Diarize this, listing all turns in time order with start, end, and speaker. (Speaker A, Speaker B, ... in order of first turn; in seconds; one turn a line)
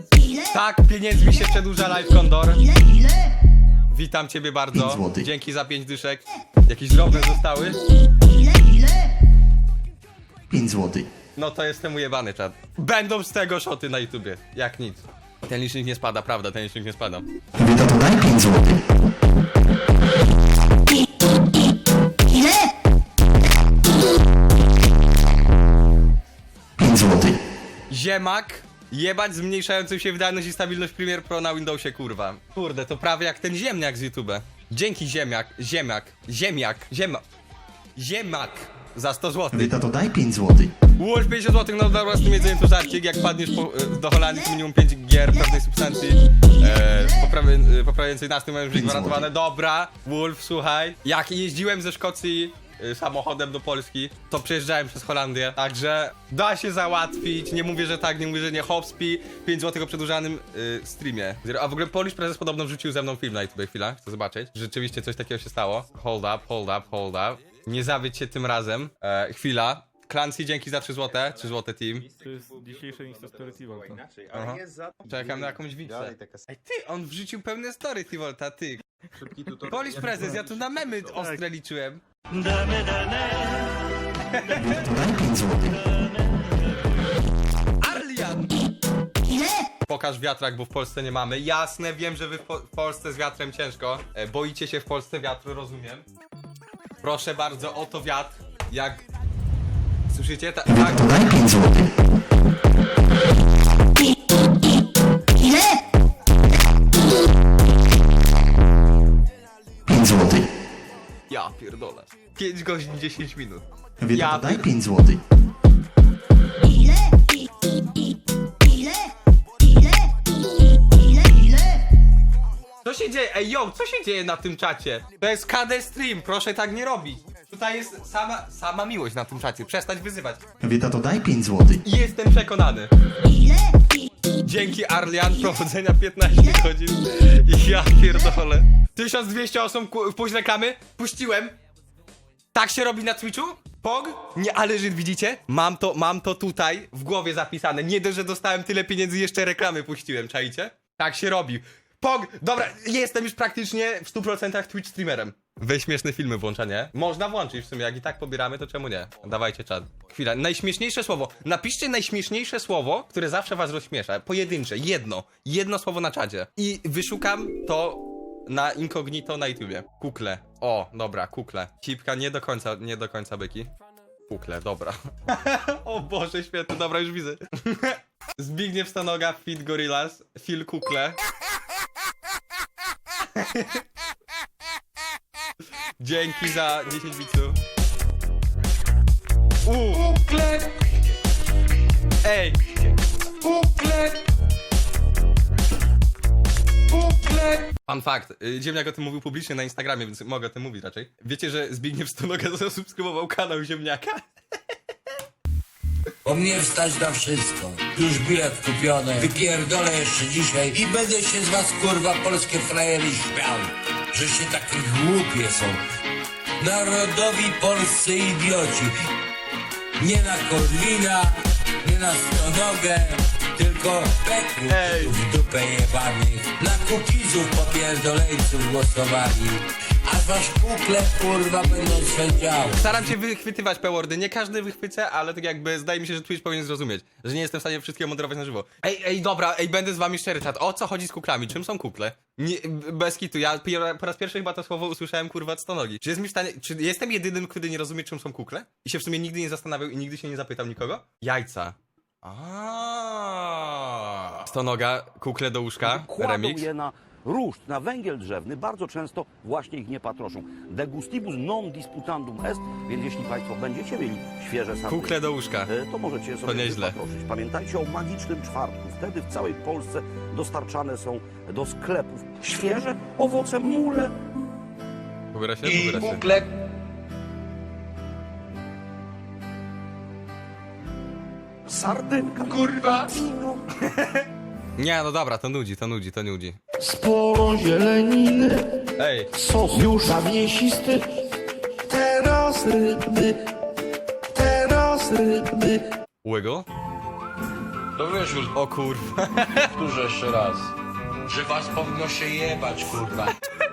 Speaker A: 0.5-2.7
Speaker A: 3.9-7.8
Speaker B: 10.5-11.0
Speaker A: 11.3-17.2
Speaker B: 17.6-18.5
Speaker A: 27.9-37.2
Speaker A: 38.0-39.9
Speaker B: 39.6-40.7
Speaker A: 40.8-72.1
Speaker C: 72.2-74.0
Speaker A: 74.3-78.8
Speaker A: 79.4-82.0
Speaker C: 82.5-83.2
Speaker A: 84.3-85.3
Speaker B: 85.2-85.4
Speaker A: 87.8-88.5
Speaker A: 89.9-96.0
Speaker A: 97.0-99.0
Speaker A: 100.1-101.7
Speaker A: 111.3-114.9
Speaker A: 122.8-130.4
Speaker B: 130.6-131.8
Speaker A: 131.8-132.9
Speaker A: 134.4-141.6
Speaker A: 142.5-173.7
Speaker A: 174.3-181.2
Speaker A: 183.3-183.8
Speaker A: 186.0-187.6
Speaker A: 189.6-190.4
Speaker D: 190.2-190.7
Speaker A: 192.2-192.6
Speaker D: 193.5-194.1
Speaker D: 197.0-197.6
Speaker A: 197.8-204.2
Speaker E: 206.2-215.8
Speaker E: 216.6-218.9
Speaker E: 220.0-233.0
Speaker A: 224.7-225.2
Speaker A: 232.8-256.7
Speaker F: 255.8-274.1
Speaker A: 264.9-265.7
Speaker A: 266.4-267.0
Speaker A: 275.3-276.2
Speaker E: 275.6-276.5
Speaker F: 281.7-283.6
Speaker A: 284.8-286.6
Speaker D: 286.8-288.6
Speaker A: 289.0-289.3
Speaker D: 289.4-291.0
Speaker D: 291.9-293.3
Speaker D: 294.4-295.8
Speaker A: 296.2-296.7
Speaker E: 298.0-298.5
Speaker A: 298.5-299.7
Speaker E: 299.8-300.7
Speaker E: 301.3-303.3